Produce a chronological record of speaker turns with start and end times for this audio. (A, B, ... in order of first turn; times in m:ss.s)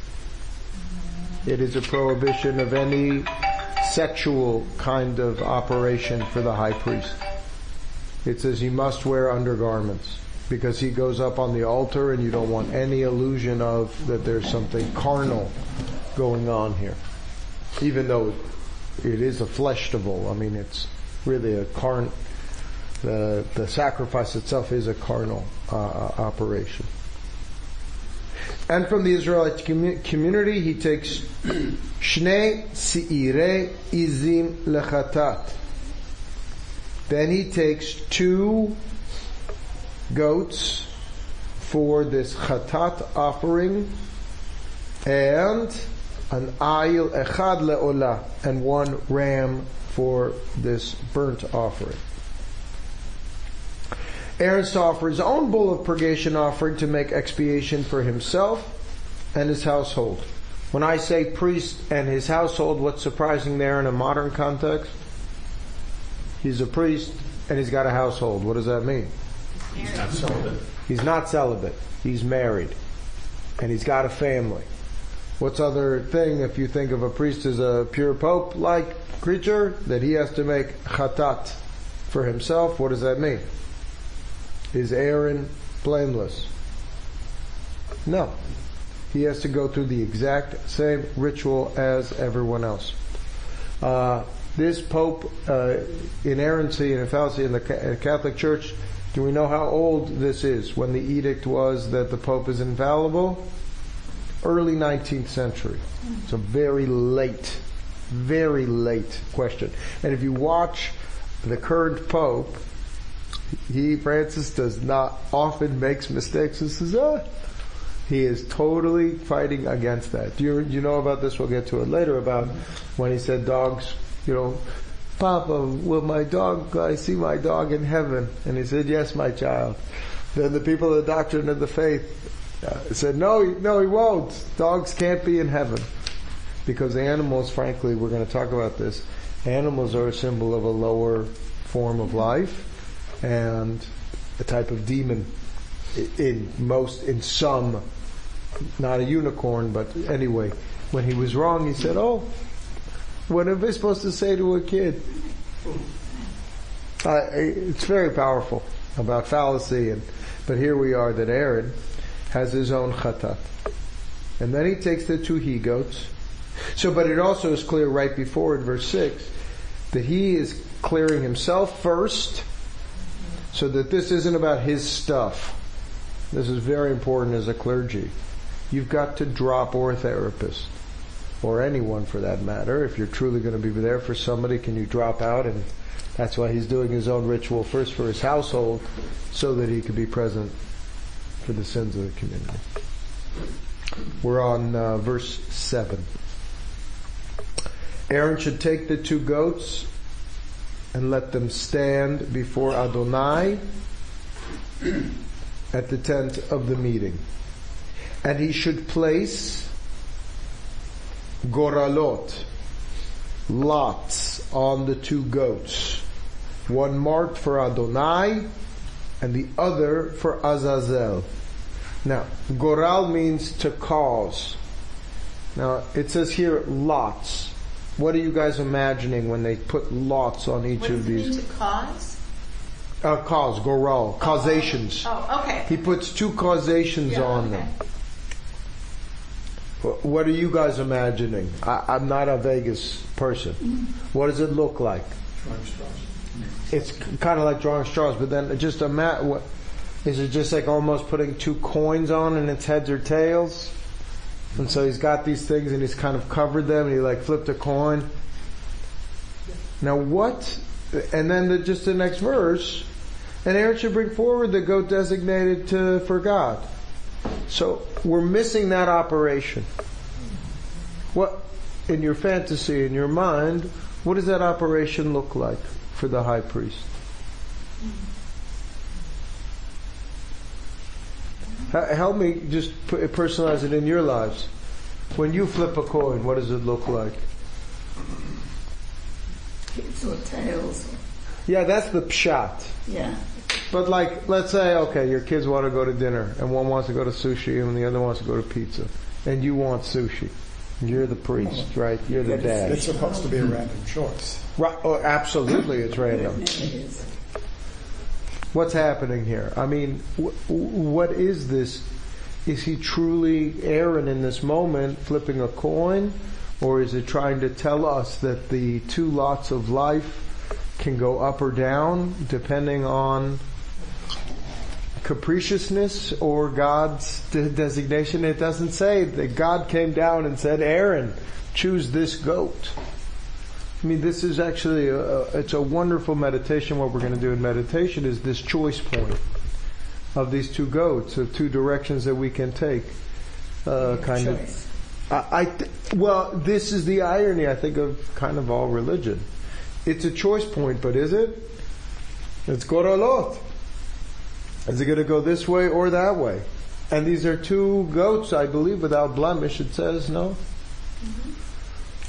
0:01.4-0:07.2 A
0:08.2-0:15.5 A
0:16.1-0:17.0 A
0:17.8-0:18.4 A
0:19.0-0:22.1 A
0:23.0-0:26.9 A
0:28.7-0:31.3 A
0:32.0-0:35.6 A
0:37.1-0:38.8 A
0:40.1-0:40.9 A
0:41.6-0:43.9 A
0:45.0-0:52.0 A
0:54.4-0:58.7 A
0:59.3-1:04.9 A
1:06.4-1:09.1 A
1:09.7-1:10.2 B
1:09.7-1:10.6 C
1:10.9-1:12.8 A
1:13.6-1:14.7 A
1:15.4-1:23.4 A
1:24.7-1:26.5 A
1:28.1-1:28.4 A
1:29.1-1:33.0 A
1:33.8-1:43.4 A
1:44.4-1:52.6 A
1:53.7-1:57.2 A
1:58.1-2:04.6 A
2:05.2-2:09.8 A
2:10.3-2:15.9 A
2:16.7-2:22.7 A
2:23.2-2:25.3 A
2:25.9-2:27.8 A
2:28.8-2:32.3 A
2:33.3-2:35.0 A
2:37.0-2:41.7 A
2:42.3-2:43.5 A
2:44.4-2:46.1 A
2:46.7-2:49.3 A
2:49.9-2:52.5 A
2:53.5-2:55.6 A
2:56.3-2:58.1 A
2:58.7-3:00.7 A
3:01.4-3:10.5 A
3:11.4-3:12.6 A
3:14.2-3:16.1 A
3:18.1-3:19.9 A
3:20.9-3:23.6 A
3:25.7-3:27.2 A
3:28.2-3:29.7 A
3:31.4-3:32.5 A
3:33.5-3:36.0 A
3:36.7-3:38.5 A
3:39.2-3:41.3 A
3:42.0-3:44.6 A
3:45.6-3:51.4 A
3:50.8-3:52.2 B
3:53.0-3:55.1 A
3:54.2-3:55.9 B
3:55.7-3:57.7 A
3:57.0-3:57.7 B
3:59.8-4:03.6 A
4:04.1-4:05.1 A
4:05.4-4:06.5 C
4:06.7-4:09.4 A
4:10.0-4:13.7 A
4:14.6-4:18.1 A
4:19.8-4:22.9 A
4:23.4-4:26.7 A
4:27.5-4:29.7 A
4:31.1-4:36.8 A
4:41.7-4:44.5 A
4:45.2-4:47.2 A
4:49.7-4:51.0 D
4:51.5-4:52.8 A
4:52.9-4:53.2 D
4:53.7-5:02.9 A
5:01.4-5:04.4 E
5:02.2-5:03.3 D
5:04.6-5:06.4 A
5:06.1-5:07.1 D
5:08.5-5:11.9 A
5:12.5-5:20.2 A
5:20.8-5:23.4 A
5:25.0-5:32.8 A
5:33.8-5:39.2 A
5:40.2-5:42.9 A
5:43.6-5:44.4 A
5:43.8-5:44.6 D
5:45.1-5:49.2 A
5:49.8-5:51.5 A
5:52.5-5:53.4 A
5:54.7-6:00.4 A
6:01.0-6:01.3 B